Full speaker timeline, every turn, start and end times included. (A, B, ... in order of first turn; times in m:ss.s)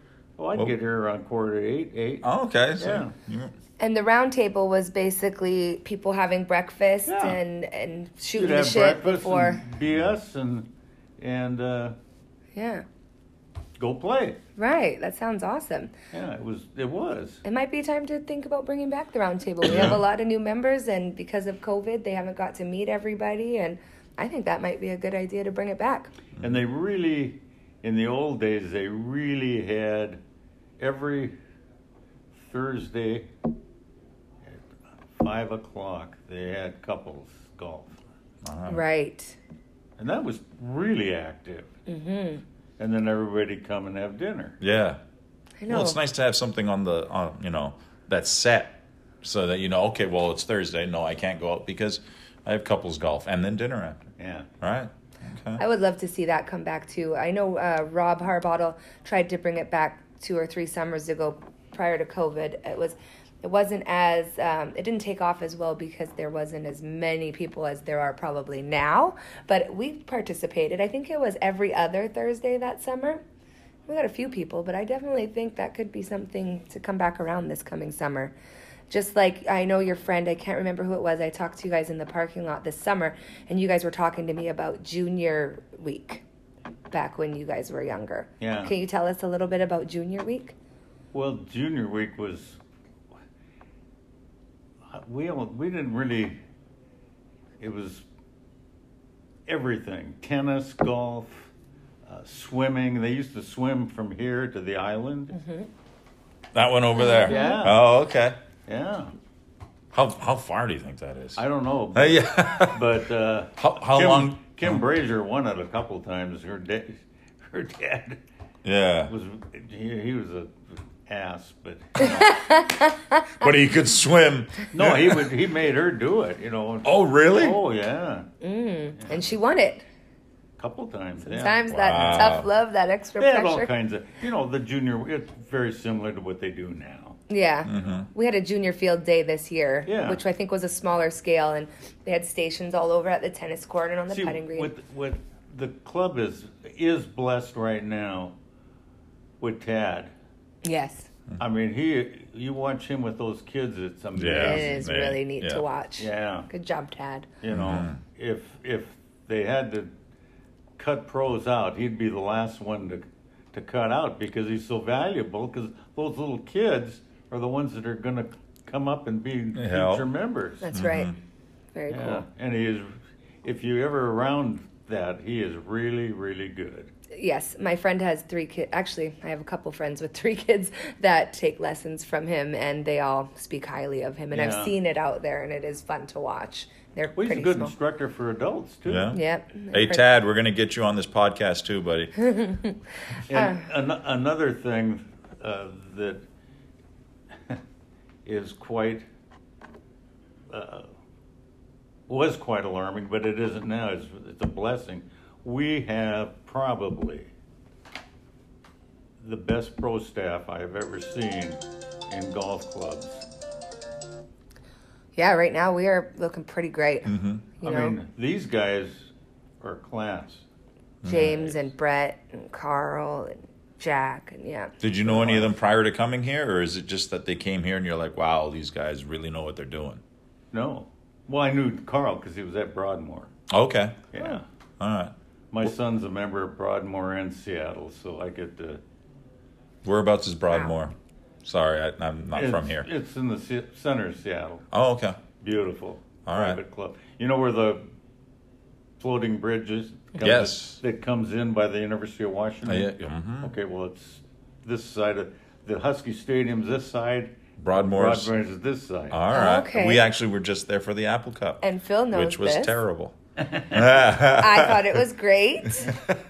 0:00.4-0:02.3 A
0:02.2-0:03.5 B
0:02.8-0:03.1 A
0:03.8-0:09.6 C
0:07.1-0:07.4 A
0:08.4-0:10.7 A
0:11.2-0:12.0 A
0:12.6-0:12.8 C
0:13.8-0:14.4 A
0:14.6-0:15.9 C
0:16.1-0:17.4 A
0:17.4-0:26.1 C
0:19.6-0:20.0 B
0:26.4-0:30.2 A
0:30.8-0:31.4 A
0:32.3-0:33.3 A
0:34.4-0:38.0 A
0:38.4-0:38.8 B
0:38.7-0:39.4 C
0:40.0-0:41.7 A
0:41.9-0:42.4 C
0:42.8-0:44.6 A
0:44.6-0:45.0 B
0:45.6-0:46.0 C
0:45.7-0:54.0 B
0:54.2-0:54.5 A
0:54.6-0:55.6 B
0:55.6-1:13.2 C
1:13.9-1:18.3 C
1:18.9-1:26.2 C
1:26.9-1:30.6 C
1:28.4-1:28.7 A
1:31.1-1:32.6 A
1:34.9-1:36.4 A
1:37.6-1:38.1 A
1:39.5-1:41.5 A
1:42.0-1:45.4 A
1:45.4-1:45.7 C
1:46.5-1:48.4 B
1:47.0-1:47.7 C
1:47.2-1:47.8 A
1:48.7-1:49.1 A
1:49.9-1:51.4 B
1:51.4-1:58.2 A
1:51.9-1:53.0 B
1:53.6-1:54.8 B
1:58.6-1:59.1 B
1:59.1-2:02.5 A
2:02.0-2:03.4 C
2:03.4-2:05.3 B
2:04.7-2:08.3 A
2:06.8-2:07.6 B
2:08.4-2:09.9 C
2:10.6-2:11.7 A
2:11.2-2:13.7 C
2:11.7-2:12.5 B
2:13.2-2:17.2 A
2:17.3-2:24.7 C
2:17.6-2:18.1 B
2:19.9-2:20.2 A
2:24.1-2:28.4 A
2:29.4-2:30.1 A
2:30.6-2:31.1 C
2:31.4-2:34.8 A
2:34.2-2:35.6 B
2:34.4-2:37.3 C
2:36.0-2:36.5 A
2:37.4-2:39.9 A
2:37.5-2:38.0 B
2:40.8-2:50.7 A
2:49.6-2:50.1 B
2:50.6-2:51.1 C
2:50.7-2:51.2 B
2:51.8-2:52.2 C
2:51.9-2:56.9 A
2:57.1-3:07.7 C
3:04.3-3:04.8 A
3:07.2-3:09.2 A
3:08.9-3:09.2 B
3:09.1-3:10.0 C
3:09.7-3:12.3 B
3:12.2-3:13.6 C
3:13.3-3:16.2 A
3:18.3-3:19.0 A
3:20.5-3:20.9 A
3:22.1-3:27.3 A
3:29.2-3:33.2 A
3:35.2-3:38.0 C
3:37.1-3:37.5 B
3:37.6-3:40.4 A
3:41.0-3:41.4 B
3:41.0-3:44.7 C
3:41.1-3:41.5 A
3:44.8-3:50.0 B
3:45.0-3:45.6 A
3:50.5-3:53.3 A
3:53.5-3:54.1 B
3:54.1-3:54.5 A
3:54.8-3:55.1 B
3:55.5-3:58.8 A
3:59.8-4:02.9 B
4:02.4-4:04.6 A
4:04.7-4:05.2 B
4:05.4-4:07.8 A
4:06.3-4:06.6 B
4:09.0-4:19.2 A
4:10.2-4:10.8 B
4:12.6-4:13.5 B
4:17.6-4:18.3 B
4:19.1-4:23.2 B
4:19.3-4:20.0 C
4:21.6-4:22.8 C
4:23.4-4:24.0 A
4:23.7-4:25.0 B
4:24.2-4:26.0 C
4:25.8-4:26.2 B